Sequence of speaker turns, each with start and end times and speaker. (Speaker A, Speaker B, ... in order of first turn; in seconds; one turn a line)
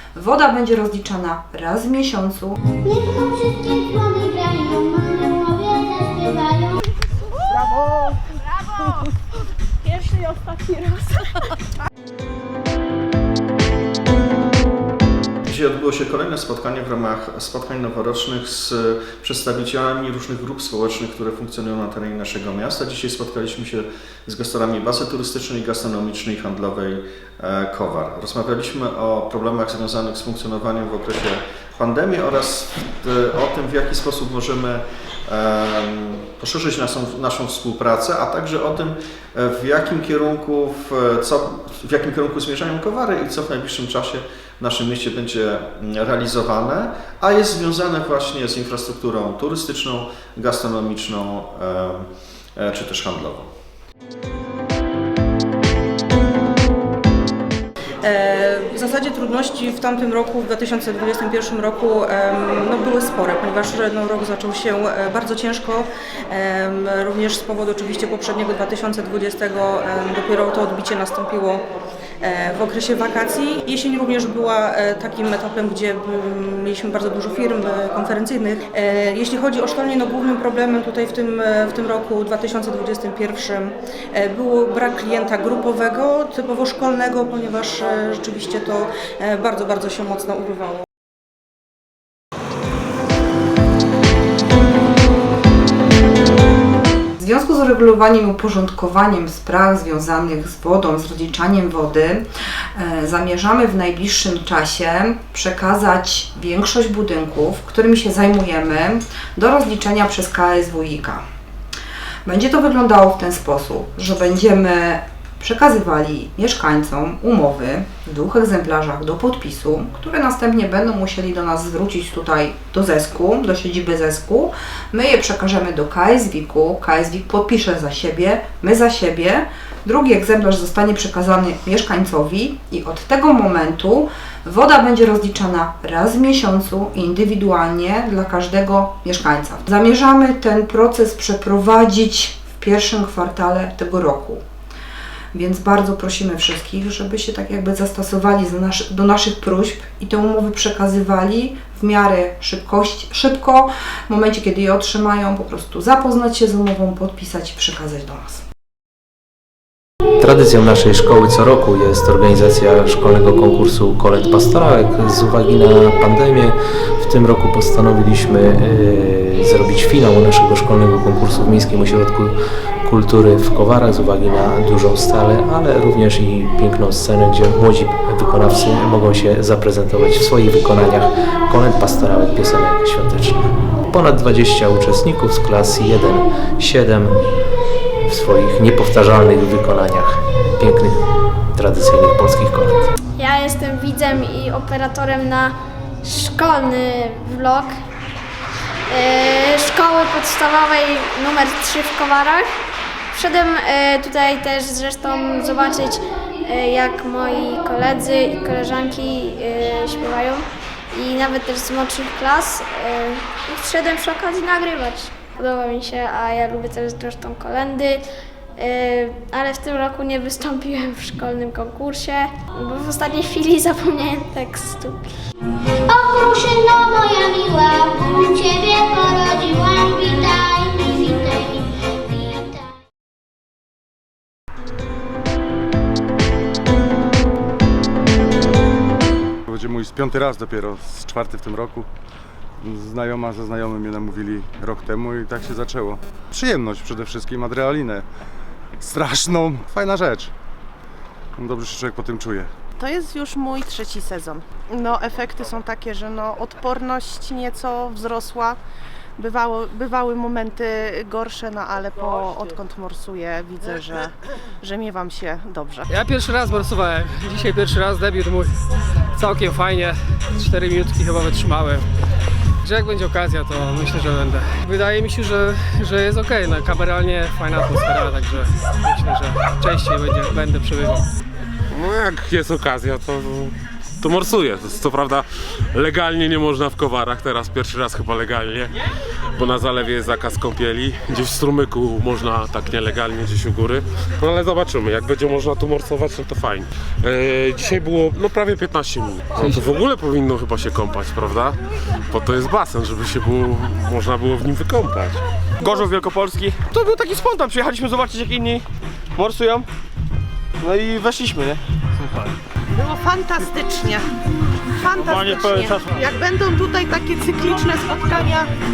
Speaker A: 0.1-2.6
Speaker B: 2.8-6.8
Speaker C: 15.5-53.5
Speaker D: 58.0-71.6
Speaker D: 72.2-90.8
Speaker A: 97.2-111.2
Speaker A: 112.2-144.4
Speaker A: 145.3-158.4
Speaker E: 160.2-187.3
Speaker E: 188.0-192.9
Speaker F: 193.2-197.8
Speaker F: 198.9-202.5
Speaker F: 203.1-218.1
Speaker F: 218.6-225.1
Speaker B: 225.9-232.7
Speaker G: 239.5-241.9
Speaker G: 242.6-248.1
Speaker G: 248.8-250.3
Speaker G: 251.4-252.5
Speaker H: 252.8-258.6
Speaker H: 259.2-265.9
Speaker I: 265.9-268.5
Speaker I: 269.1-271.9
Speaker I: 272.6-281.1
Speaker J: 281.7-288.7
Speaker J: 289.4-305.2
Speaker K: 305.6-309.7
Speaker K: 310.6-312.3
Speaker H: 312.7-314.1
Speaker H: 314.7-318.5
Speaker K: 315.0-316.0